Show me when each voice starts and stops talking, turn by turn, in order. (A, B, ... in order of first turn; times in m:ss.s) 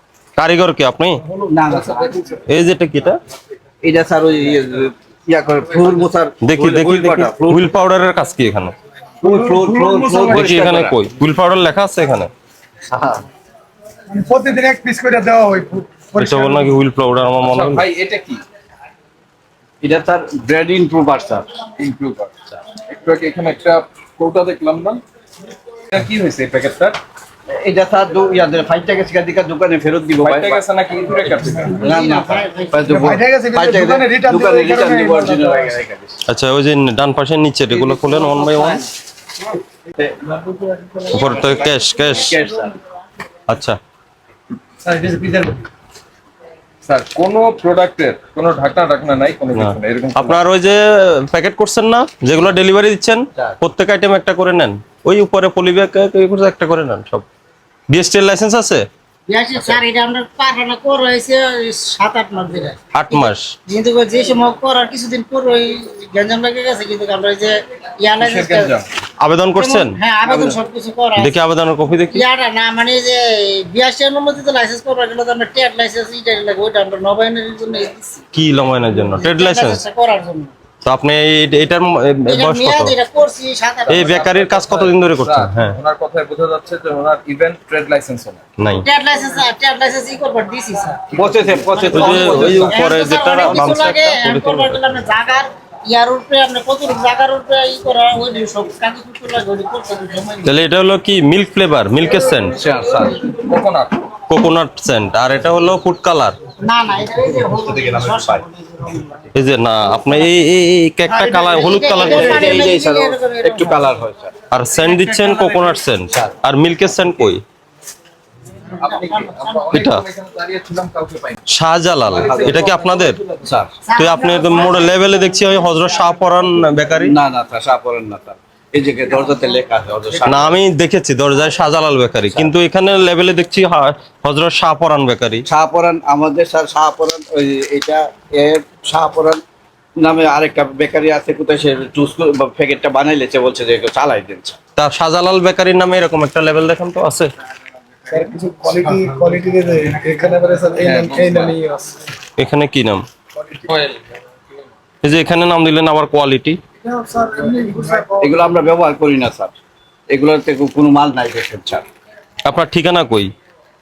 0:00.4-0:01.2 A
0:01.4-0:02.3 B
0:01.7-0:02.3 C
0:02.5-0:03.2 A
0:03.8-0:07.6 B
0:06.4-0:08.7 A
0:09.2-0:11.0 B
0:10.1-0:12.3 A
0:12.9-0:13.2 B
0:14.1-0:16.6 D
0:16.2-0:17.8 A
0:17.4-0:18.4 C
0:19.8-0:21.5 B
0:21.8-0:25.0 C
0:25.9-0:27.0 C
0:27.5-0:30.6 B
0:30.2-0:31.8 C
0:31.8-0:33.0 E
0:31.8-0:36.2 B
0:33.0-0:35.6 D
0:36.3-0:38.8 A
0:37.9-0:38.4 C
0:40.0-0:42.8 B
0:41.1-0:42.3 A
0:43.5-0:43.8 A
0:44.8-0:45.4 C
0:46.8-0:50.4 C
0:49.6-0:57.3 A
0:57.9-0:58.9 A
0:59.3-1:08.7 E
1:03.0-1:03.5 A
1:08.2-1:08.9 C
1:09.2-1:10.0 A
1:09.6-1:11.4 E
1:10.2-1:10.6 B
1:11.2-1:12.2 A
1:12.1-1:18.2 E
1:18.3-1:19.8 A
1:19.2-1:20.5 E
1:20.8-1:23.0 A
1:22.3-1:24.1 E
1:23.8-1:28.5 C
1:23.9-1:25.8 A
1:28.6-1:28.8 A
1:28.8-1:40.6 E
1:31.1-1:33.9 B
1:31.2-1:31.8 C
1:31.9-1:34.8 A
1:40.5-1:42.6 A
1:42.5-1:43.2 B
1:42.9-1:44.1 C
1:44.3-1:46.4 A
1:46.6-1:49.3 E
1:47.3-1:48.4 B
1:49.4-1:52.7 A
1:51.1-1:53.9 E
1:51.9-1:54.4 B
1:54.5-1:57.4 A
1:55.0-1:55.6 C
1:58.7-1:59.9 E
1:58.8-2:01.4 C
1:59.7-2:00.0 A
2:01.5-2:03.2 A
2:02.1-2:03.5 C
2:02.1-2:02.7 B
2:03.4-2:03.8 B
2:03.8-2:06.1 E
2:04.0-2:07.2 A
2:07.0-2:10.6 B
2:10.2-2:15.5 A
2:15.5-2:19.4 B
2:20.0-2:24.6 B
2:24.8-2:27.3 A
2:28.0-2:28.4 C
2:28.1-2:32.0 D
2:30.7-2:31.6 C
2:32.4-2:33.0 A
2:33.7-2:34.0 C
2:35.0-2:36.6 A
2:37.0-2:38.1 D
2:38.2-2:39.6 B
2:40.1-2:41.9 B
2:42.4-2:43.3 A